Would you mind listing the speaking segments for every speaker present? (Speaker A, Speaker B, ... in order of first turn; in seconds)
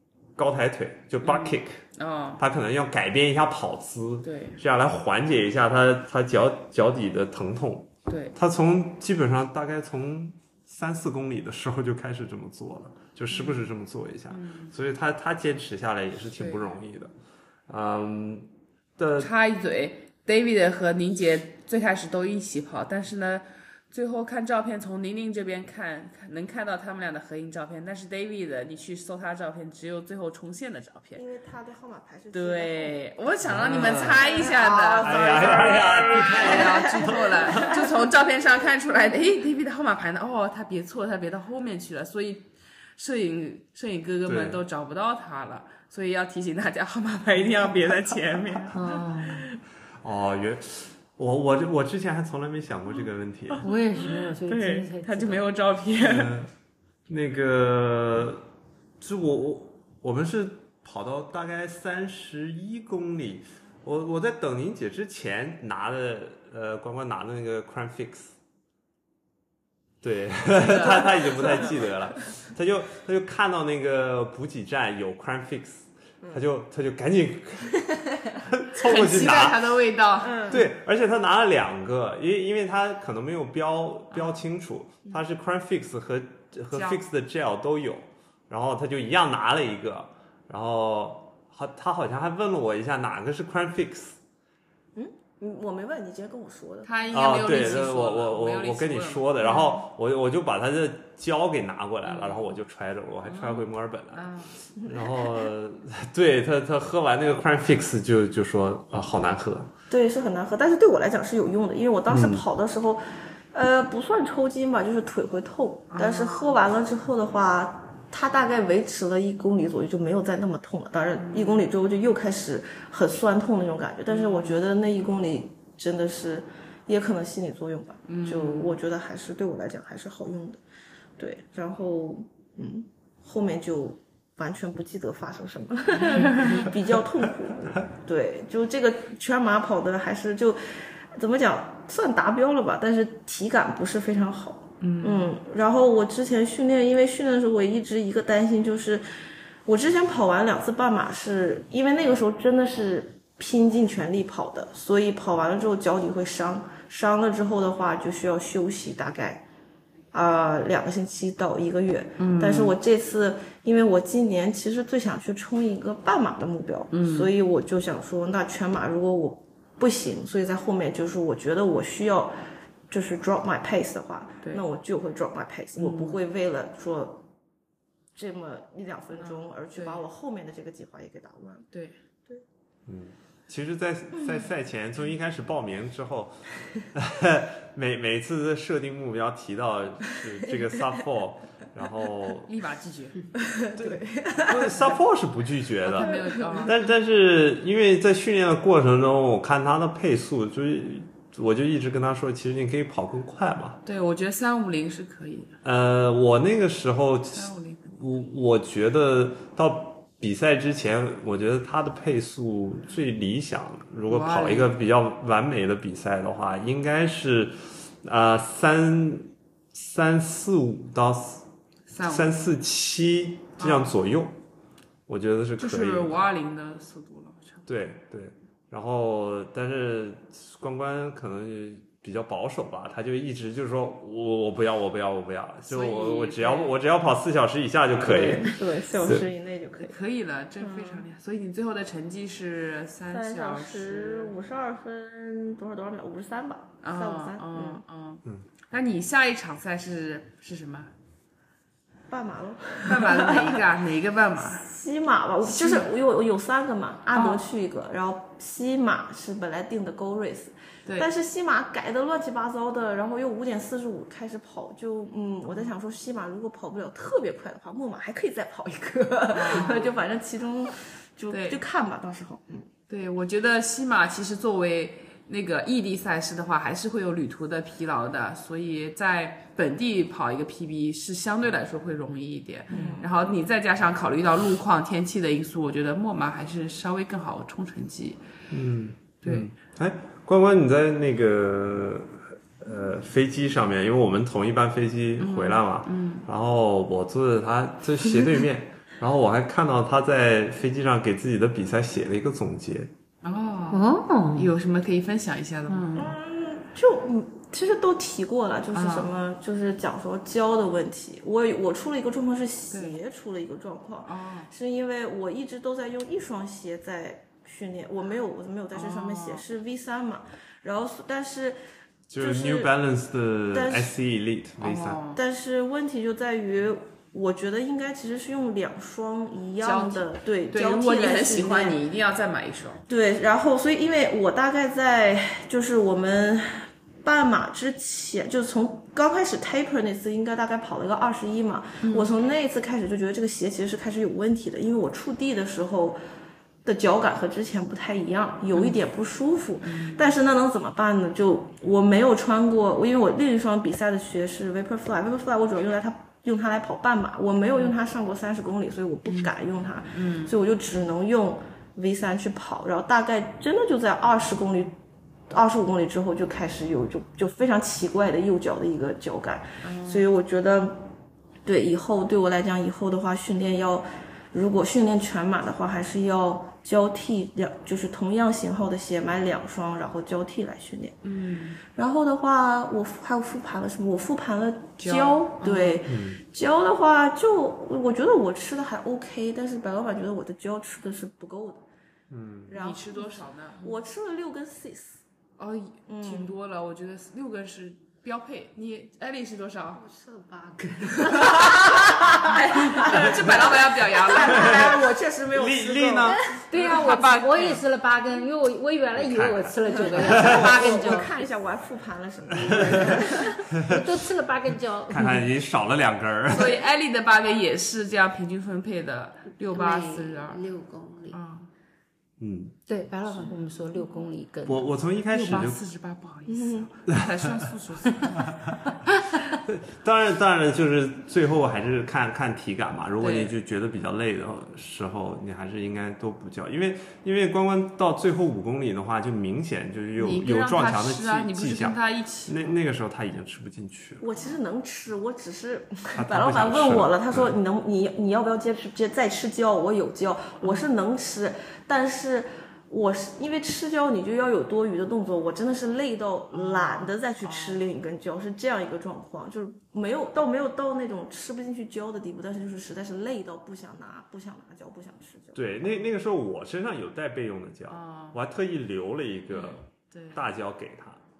Speaker A: 0.4-1.8, 2.4-17.1, 17.7-19.3, 33.4-34.3, 35.0-37.7, 44.3-44.6, 50.0-53.7, 56.0-56.5, 57.1-58.5, 59.0-68.3, 70.0-79.7, 80.5-94.2, 97.1-109.7, 112.1-112.5, 182.9-192.5, 193.8-203.8, 205.6-221.4, 222.0-224.4, 225.1-226.1, 227.7-239.2, 288.5-302.9, 322.1-325.0, 385.9-386.2, 392.1-392.5, 404.3-404.7, 405.3-406.3, 408.9-410.6, 412.4-412.9, 413.5-413.8, 414.9-416.6, 422.2-422.6, 424.4-425.6, 426.9-427.5, 429.4-444.0, 445.9-447.4, 465.4-471.0
Speaker B: 1.2-2.4, 4.2-4.6, 8.1-8.4, 13.3-13.7, 14.3-14.7, 16.3-16.8, 19.2-31.2, 32.3-48.8, 54.0-56.3, 70.6-71.7, 78.8-80.6, 84.1-84.4, 86.7-87.0, 96.8-99.8, 102.0-102.5, 103.2-104.5, 115.9-116.6, 121.1-121.7, 124.1-124.6, 128.1-128.8, 135.9-136.7, 144.8-145.3, 162.2-162.8, 166.9-167.3, 175.8-176.2, 179.2-180.0, 181.7-182.0, 192.4-193.2, 195.8-196.8, 203.8-205.5, 207.3-207.9, 214.1-214.7, 221.9-222.4, 223.6-223.9, 225.6-227.7, 235.7-236.8, 239.8-244.4, 246.8-250.9, 252.8-254.7, 255.4-255.9, 257.1-257.4, 269.3-270.0, 271.3-271.6, 272.9-288.2, 295.2-296.3, 303.2-306.1, 308.7-309.1, 312.7-313.0, 314.0-314.5, 318.7-319.4, 324.6-325.2, 329.6-332.8, 341.8-342.1, 348.5-348.8, 349.6-350.1, 359.1-359.3, 359.9-360.4, 369.6-370.1, 381.0-381.6, 384.8-385.8, 392.5-393.8, 395.4-399.8, 402.3-404.7, 406.5-407.6, 410.1-411.1, 416.3-420.4, 421.1-421.5, 425.1-428.7, 433.0-433.3, 440.0-442.5, 450.4-450.7, 456.3-457.6, 467.7-468.2, 469.3-470.2
Speaker C: 31.1-33.0, 33.6-37.9, 71.2-71.7, 80.2-80.7, 95.0-96.9, 104.8-105.5, 109.9-113.0, 113.5-130.6, 131.2-149.1, 149.7-159.4, 160.1-172.3, 172.9-177.2, 178.2-181.7, 193.3-195.0, 196.0-196.7, 238.0-240.0, 240.6-241.1, 243.1-247.8, 252.1-253.7, 254.5-272.7, 282.7-283.1, 305.9-321.6, 322.1-322.7, 323.5-323.9, 325.1-331.8, 332.9-346.0, 346.6-364.8, 365.3-370.9, 371.4-381.0, 381.6-391.6, 392.5-395.0, 395.9-396.4, 401.1-406.3, 409.7-413.5, 426.3-426.7, 444.0-465.4
Speaker D: 48.7-49.5, 53.6-55.5, 303.7-304.5, 406.5-411.2, 412.9-415.3, 422.7-424.7
Speaker E: 399.8-401.5, 419.4-421.2